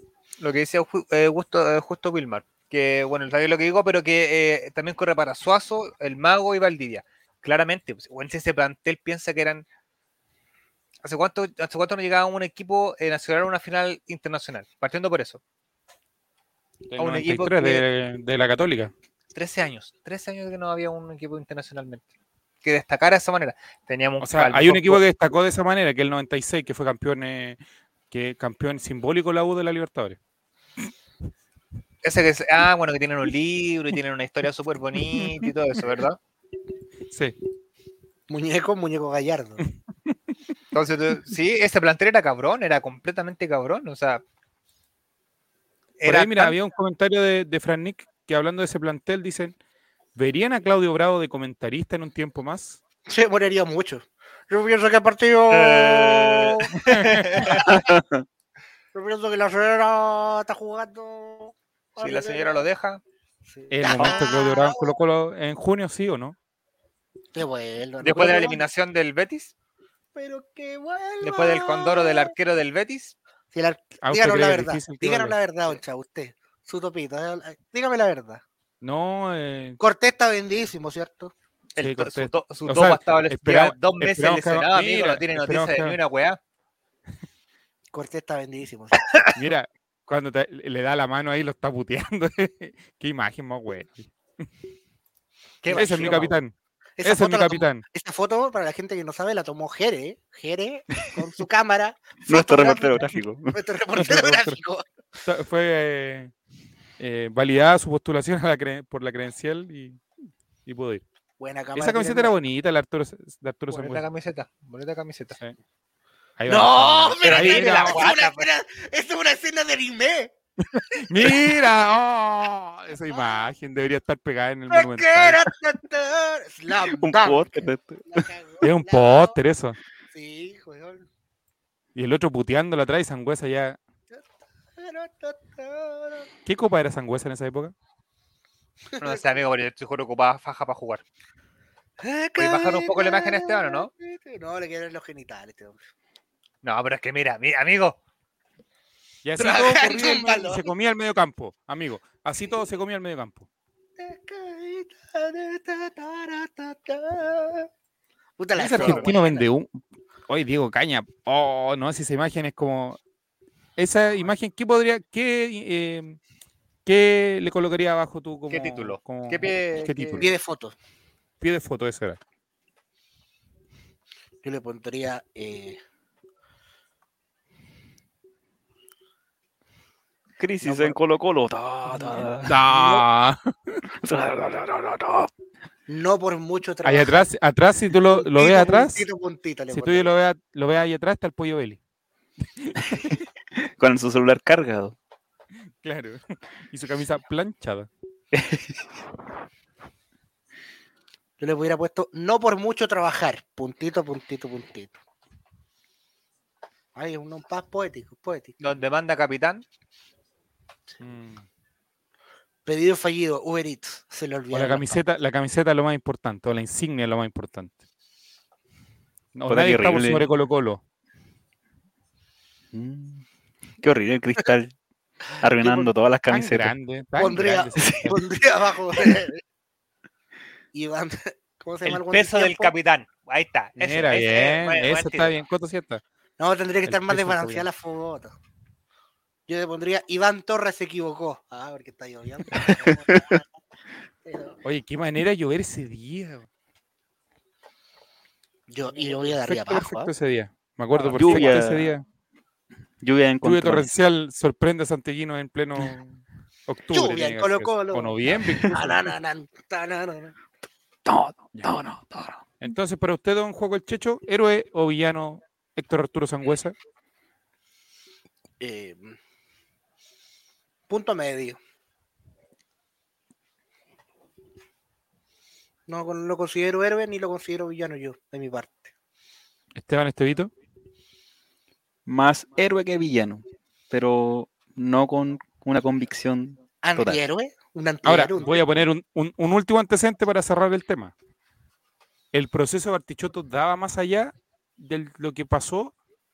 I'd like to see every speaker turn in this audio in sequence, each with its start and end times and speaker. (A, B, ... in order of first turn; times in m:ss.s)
0:00.4-0:09.6 A
0:11.0-0:15.4 A
0:16.9-0:18.9 B
0:17.0-0:17.9 A
0:19.3-0:22.1 A
0:22.6-0:25.0 A
0:24.2-0:27.6 B
0:28.1-0:30.2 B
0:32.0-0:36.2 A
0:35.2-0:35.5 B
0:37.1-0:37.4 B
0:38.3-0:39.6 C
0:40.7-0:44.2 A
0:46.0-0:46.6 A
0:46.1-0:49.6 B
0:50.2-0:52.8 B
0:53.1-0:56.7 C
0:55.5-0:57.8 A
0:56.8-0:57.4 B
0:57.4-0:57.8 C
0:57.7-0:58.2 D
0:58.9-1:02.6 C
1:02.0-1:03.0 A
1:03.5-1:04.9 C
1:03.7-1:06.4 B
1:07.3-1:08.6 C
1:08.0-1:09.5 A
1:10.2-1:12.3 C
1:11.2-1:13.2 A
1:13.5-1:18.4 C
1:14.0-1:15.4 B
1:18.8-1:19.8 B
1:19.8-1:21.3 C
1:21.8-1:26.4 A
1:21.8-1:26.0 B
1:27.9-1:29.3 C
1:29.4-1:34.1 B
1:35.6-1:36.4 A
1:35.7-1:36.3 C
1:35.7-1:37.8 B
1:37.0-1:44.9 C
1:42.3-1:43.6 D
1:44.0-1:44.6 B
1:45.2-1:46.3 B
1:47.0-1:50.0 B
1:50.7-1:51.0 B
1:51.4-1:52.3 C
1:51.8-1:54.0 B
1:53.7-1:55.4 A
1:56.4-1:58.1 B
1:56.5-2:00.3 C
1:57.2-1:58.5 A
2:01.0-2:01.4 C
2:01.1-2:05.4 B
2:03.1-2:03.5 C
2:04.7-2:07.5 C
2:06.8-2:08.3 D
2:08.1-2:09.4 C
2:08.6-2:09.8 B
2:10.1-2:11.1 C
2:12.0-2:13.8 B
2:14.8-2:16.3 C
2:16.5-2:17.7 B
2:18.9-2:19.2 C
2:19.0-2:21.0 A
2:22.0-2:25.8 C
2:22.4-2:23.9 A
2:26.6-2:28.0 A
2:29.2-2:33.5 B
2:29.4-2:30.7 C
2:34.0-2:37.7 C
2:38.4-2:39.5 C
2:38.6-2:43.0 B
2:38.6-2:39.2 A
2:43.8-2:46.2 B
2:46.8-2:50.3 B
2:48.5-2:50.3 A
2:50.2-2:50.8 C
2:51.4-2:52.2 B
2:54.4-2:55.8 C
3:00.4-3:02.6 D
3:00.6-3:01.0 C
3:01.9-3:03.1 C
3:02.4-3:03.8 B
3:04.0-3:05.3 D
3:05.9-3:07.3 C
3:06.8-3:09.1 B
3:08.1-3:10.1 C
3:09.7-3:11.8 B
3:12.6-3:13.2 B
3:12.9-3:15.0 D
3:15.8-3:17.9 B
3:18.3-3:18.8 D
3:21.4-3:25.0 C
3:27.0-3:28.6 C
3:28.6-3:29.6 A
3:31.0-3:31.4 B
3:32.6-3:35.0 C
3:34.5-3:37.8 B
3:39.3-3:40.8 B
3:39.5-3:40.3 D
3:42.7-3:43.2 D
3:43.8-3:44.8 D
3:45.4-3:46.7 D
3:45.6-3:45.9 C
3:46.3-3:48.2 B
3:47.2-3:49.4 C
3:47.8-3:48.1 D
3:50.7-3:52.7 C
3:51.8-3:55.4 A
3:53.8-3:56.0 B
3:56.4-3:58.4 C
3:56.8-3:57.7 B
3:59.5-4:03.5 C
4:02.5-4:03.4 D
4:04.2-4:04.6 C
4:04.6-4:06.5 B
4:08.7-4:10.1 C
4:09.4-4:12.0 B
4:11.0-4:11.9 D
4:11.3-4:11.6 C
4:13.0-4:13.9 D
4:13.4-4:19.0 B
4:16.9-4:20.3 C
4:18.4-4:18.7 D
4:21.0-4:22.4 D
4:22.6-4:26.8 B
4:28.6-4:29.2 C
4:30.9-4:31.6 C
4:35.9-4:38.9 C
4:39.8-4:40.5 B
4:42.1-4:47.2 D
4:46.8-4:48.7 C
4:48.0-4:51.1 B
4:52.3-4:55.9 B